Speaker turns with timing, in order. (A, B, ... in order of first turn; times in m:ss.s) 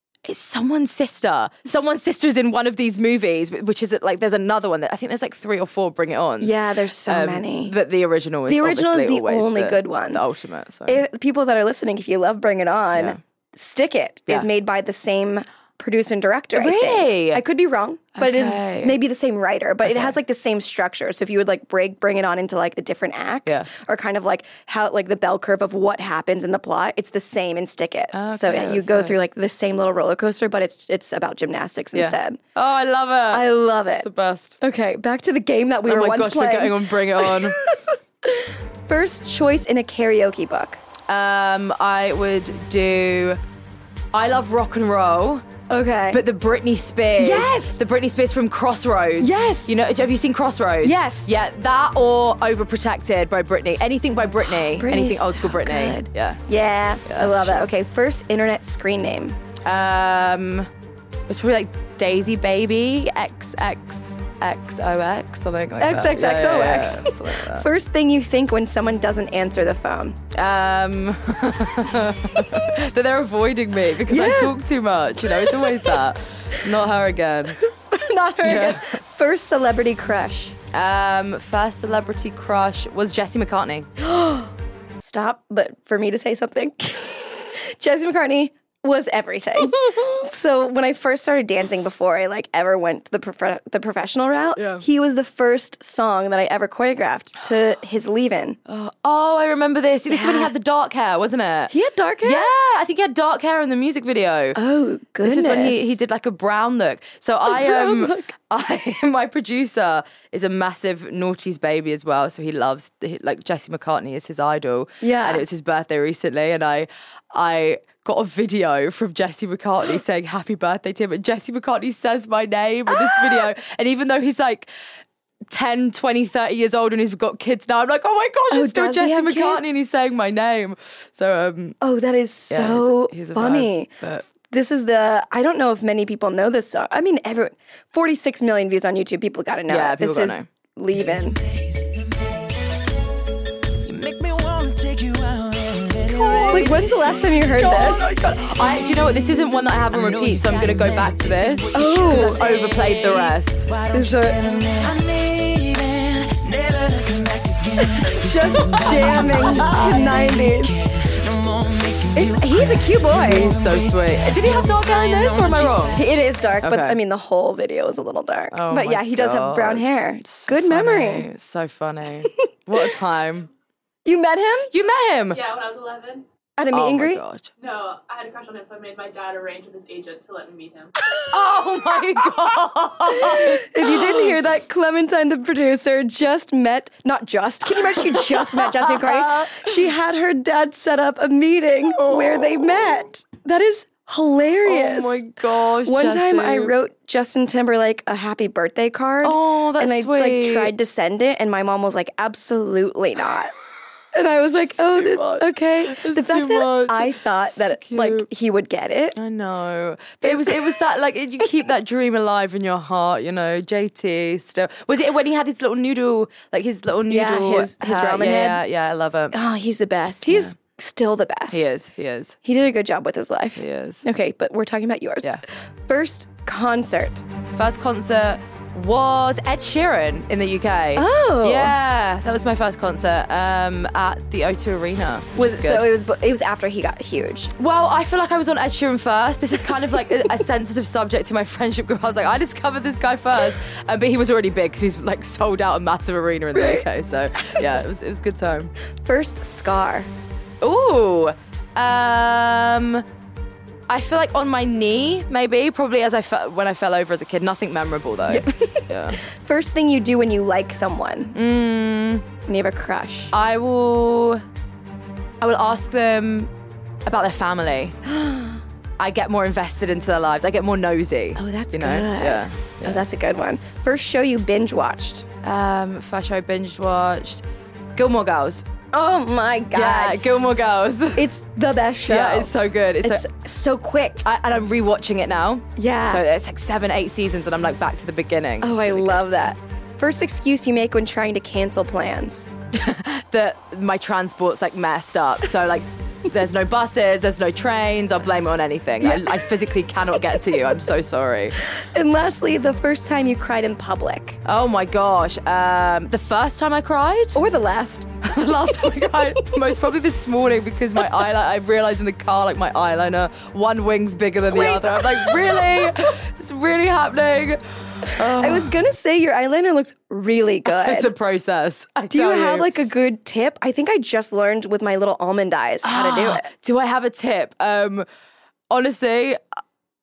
0:00.2-0:06.5 A
0:06.4-0:07.7 B
0:07.1-0:11.0 A
0:08.5-0:10.2 B
0:10.9-0:32.4 B
0:16.5-0:17.4 A
0:18.1-0:19.0 A
0:19.8-0:20.1 A
0:28.1-0:29.2 A
0:31.9-0:33.4 A
0:33.3-0:34.1 B
0:34.0-0:34.6 A
0:34.6-0:40.8 B
0:35.8-0:37.6 A
0:41.1-0:43.4 A
0:44.1-0:45.4 A
0:45.7-0:46.2 B
0:46.1-0:56.4 A
0:47.2-0:47.8 B
0:49.2-0:49.8 B
0:50.8-0:51.3 B
0:54.4-0:59.4 B
0:57.0-0:57.7 A
0:59.6-1:00.7 A
1:01.3-1:07.7 A
1:05.8-1:10.2 B
1:10.3-1:17.6 A
1:14.1-1:14.6 B
1:15.2-1:16.0 B
1:17.6-1:20.5 B
1:18.4-1:19.0 A
1:20.7-1:23.9 A
1:24.0-1:38.6 B
1:29.6-1:30.2 A
1:34.6-1:34.8 A
1:38.7-1:41.7 A
1:40.1-1:40.5 B
1:41.7-1:42.5 B
1:42.2-1:44.6 A
1:44.5-1:45.9 B
1:45.2-2:04.7 A
1:47.5-1:48.3 B
1:55.0-1:55.4 B
2:02.9-2:03.5 B
2:05.5-2:11.8 A
2:08.5-2:09.7 B
2:11.8-2:21.4 B
2:12.5-2:14.2 A
2:19.7-2:20.4 A
2:20.9-2:22.9 C
2:23.8-2:46.2 C
2:26.3-2:26.7 A
2:26.3-2:28.2 B
2:28.0-2:33.6 A
2:31.7-2:32.8 B
2:33.9-2:34.4 B
2:38.2-2:40.8 B
2:42.1-2:43.5 B
2:43.2-2:46.0 A
2:45.9-2:51.3 B
2:46.6-2:47.0 A
2:48.5-2:53.5 A
2:52.2-2:52.9 B
2:54.0-2:54.7 B
2:54.7-2:55.4 A
2:55.3-2:56.2 D
2:56.6-2:57.2 B
2:56.7-2:57.5 A
2:57.6-3:00.9 D
3:01.3-3:04.4 A
3:03.1-3:15.2 B
3:08.1-3:09.7 A
3:12.0-3:12.9 A
3:14.6-3:16.7 A
3:15.8-3:23.5 B
3:19.2-3:20.7 A
3:24.1-3:29.2 B
3:24.4-3:28.3 A
3:29.2-3:39.4 A
3:30.2-3:30.8 B
3:37.1-3:38.6 B
3:39.3-3:41.7 B
3:40.2-3:40.5 A
3:41.5-3:42.4 A
3:42.4-3:47.2 B
3:43.6-3:44.0 A
3:47.5-3:55.9 A
3:50.9-3:51.7 B
3:55.4-3:57.5 B
3:57.6-4:08.7 A
4:06.5-4:06.8 B
4:07.4-4:07.7 B
4:09.0-4:10.1 B
4:10.6-4:13.0 A
4:13.9-4:19.2 A
4:18.3-4:21.4 B
4:21.3-4:22.2 A
4:22.5-4:23.3 B
4:23.3-4:24.4 A
4:25.4-4:26.5 A
4:27.0-4:28.0 A
4:28.0-4:28.6 B
4:29.0-4:33.0 A
4:31.4-4:35.2 B
4:35.4-4:37.4 A
4:38.0-4:38.6 A
4:38.9-4:40.2 B
4:39.7-4:41.2 A
4:41.2-4:42.5 B
4:42.1-4:43.3 A
4:43.0-4:44.2 B
4:44.2-4:49.2 A
4:45.8-4:46.2 B
4:48.6-4:52.5 B
4:52.7-5:01.6 A
4:59.0-4:59.5 B
5:00.2-5:00.8 B
5:01.6-5:04.4 B
5:04.4-5:07.4 A
5:07.3-5:09.6 B
5:08.2-5:18.7 A
5:11.0-5:11.2 B
5:14.5-5:16.1 B
5:18.2-5:21.1 B
5:20.7-5:22.7 A
5:22.1-5:26.5 B
5:25.8-5:28.0 A
5:28.7-5:29.4 A